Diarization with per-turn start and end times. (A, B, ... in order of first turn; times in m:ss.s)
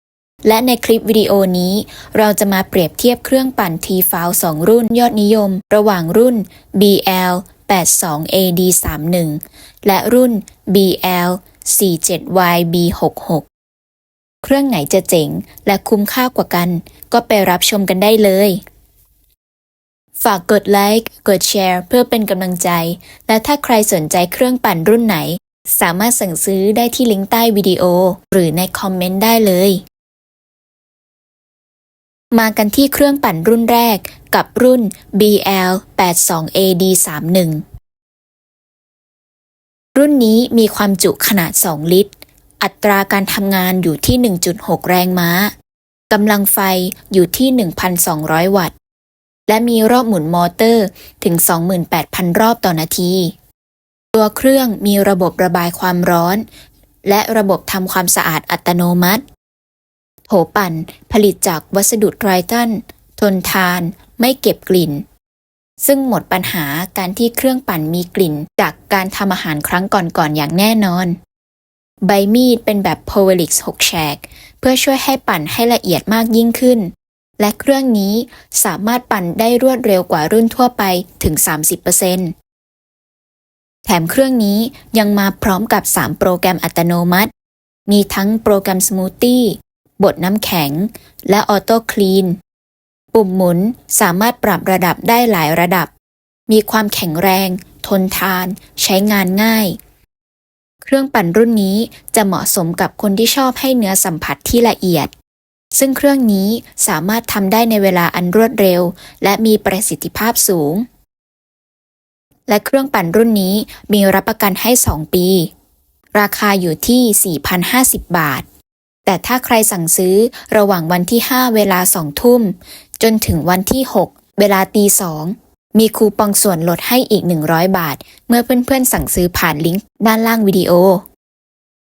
0:00.4-0:13.4 A
0:14.4-0:18.6 A
0:20.2-0:29.8 A
0:32.3-0:37.6 A
0:39.9-0:42.1 A
0:42.6-0:45.5 A
0:46.1-0:48.7 A
0:49.5-0:53.3 A
0:54.1-0:56.4 A
0:57.0-0:59.2 A
1:00.3-1:05.0 A
1:05.8-1:11.2 A
1:12.0-1:22.3 A
1:23.8-1:27.3 A
1:27.9-1:32.4 A
1:33.1-1:35.9 A
1:36.5-1:39.8 A
1:40.8-1:45.1 A
1:45.7-1:50.8 A
1:52.5-1:55.5 A
1:56.1-1:58.4 A
1:59.0-2:11.0 A